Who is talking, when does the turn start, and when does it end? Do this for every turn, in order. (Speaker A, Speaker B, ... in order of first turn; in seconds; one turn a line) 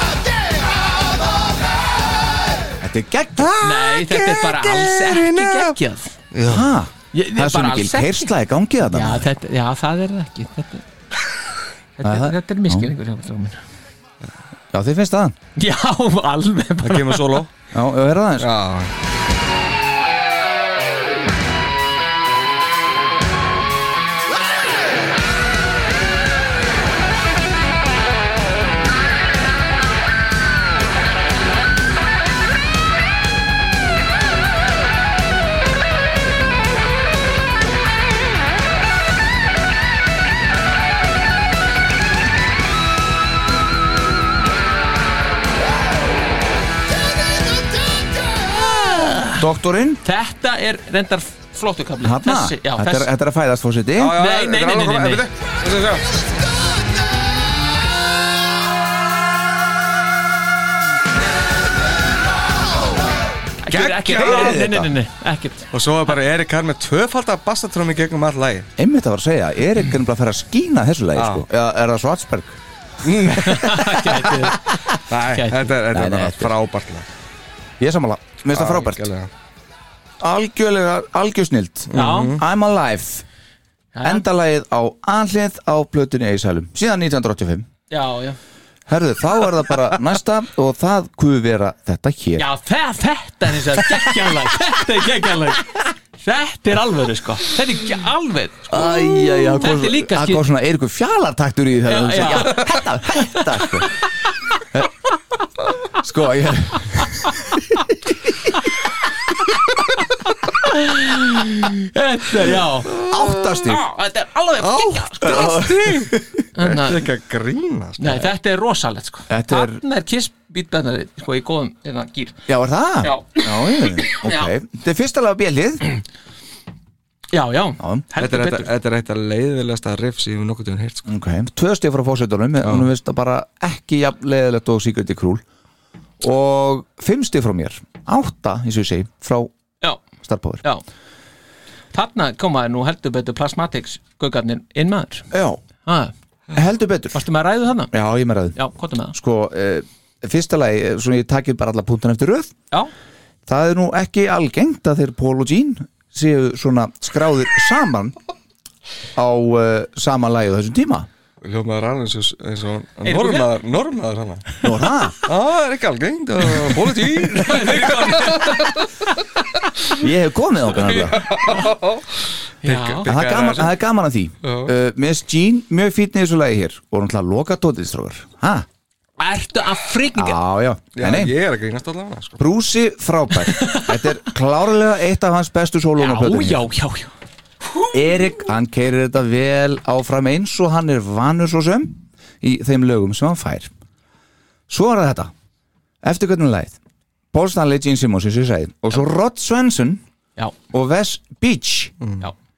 Speaker A: 2.8-4.0
Speaker B: 3.6-6.2
Speaker C: 4.1-4.5
Speaker C: 5.0-5.7
Speaker C: 6.3-6.7
Speaker A: 6.5-9.3
Speaker B: 7.1-8.3
Speaker B: 8.8-10.8
Speaker B: 12.0-13.6
Speaker A: 12.0-12.9
Speaker A: 14.7-15.4
Speaker B: 15.6-17.4
Speaker C: 16.8-17.5
Speaker A: 17.7-18.5
Speaker C: 18.4-18.9
Speaker B: 48.5-49.4
Speaker A: 49.4-50.0
Speaker B: 50.0-53.1
Speaker A: 52.0-54.2
Speaker C: 54.0-56.1
Speaker B: 54.1-55.3
Speaker B: 63.6-65.7
Speaker C: 63.7-64.6
Speaker A: 64.1-64.9
Speaker C: 65.7-68.7
Speaker A: 68.8-72.6
Speaker C: 71.2-71.5
Speaker C: 73.0-74.1
Speaker B: 73.3-74.8
Speaker C: 75.1-77.1
Speaker B: 75.3-75.7
Speaker A: 75.9-76.5
Speaker A: 77.8-79.0
Speaker C: 78.5-79.3
Speaker A: 80.2-83.2
Speaker C: 81.9-82.4
Speaker B: 81.9-82.4
Speaker B: 83.9-84.2
Speaker A: 84.0-87.7
Speaker B: 87.9-88.4
Speaker A: 88.9-92.5
Speaker B: 92.4-100.4
Speaker A: 98.7-103.9
Speaker B: 101.9-103.8
Speaker A: 106.0-108.2
Speaker B: 110.5-113.0
Speaker C: 112.9-113.7
Speaker A: 113.0-113.8
Speaker B: 113.7-115.7
Speaker C: 114.6-118.3
Speaker A: 115.2-116.4
Speaker B: 116.5-117.0
Speaker B: 118.0-122.4
Speaker A: 119.3-119.8
Speaker A: 122.5-125.8
Speaker B: 123.0-124.5
Speaker B: 127.3-128.7
Speaker A: 127.8-128.1
Speaker C: 128.2-131.1
Speaker A: 131.1-135.4
Speaker C: 132.6-132.9
Speaker A: 136.2-139.5
Speaker A: 140.2-140.6
Speaker B: 141.9-145.3
Speaker A: 145.3-145.6
Speaker B: 145.8-146.1
Speaker A: 146.5-147.2
Speaker B: 147.1-147.9
Speaker A: 147.9-148.6
Speaker B: 148.6-149.2
Speaker A: 149.1-152.5
Speaker A: 153.5-158.2
Speaker A: 159.2-161.1
Speaker C: 161.4-164.7
Speaker B: 163.1-163.5
Speaker A: 164.6-165.2
Speaker C: 165.2-168.9
Speaker B: 167.3-168.8
Speaker A: 169.9-171.2
Speaker C: 170.8-173.7
Speaker B: 172.6-173.1
Speaker A: 173.1-178.7
Speaker C: 174.4-174.7
Speaker B: 179.2-180.4
Speaker A: 180.1-181.3
Speaker C: 180.9-182.4
Speaker A: 182.4-186.6
Speaker B: 183.5-183.9
Speaker B: 186.0-187.1
Speaker A: 187.9-193.7
Speaker A: 194.7-195.3
Speaker A: 196.0-196.8
Speaker A: 197.3-200.0
Speaker A: 200.7-201.9
Speaker C: 202.0-202.3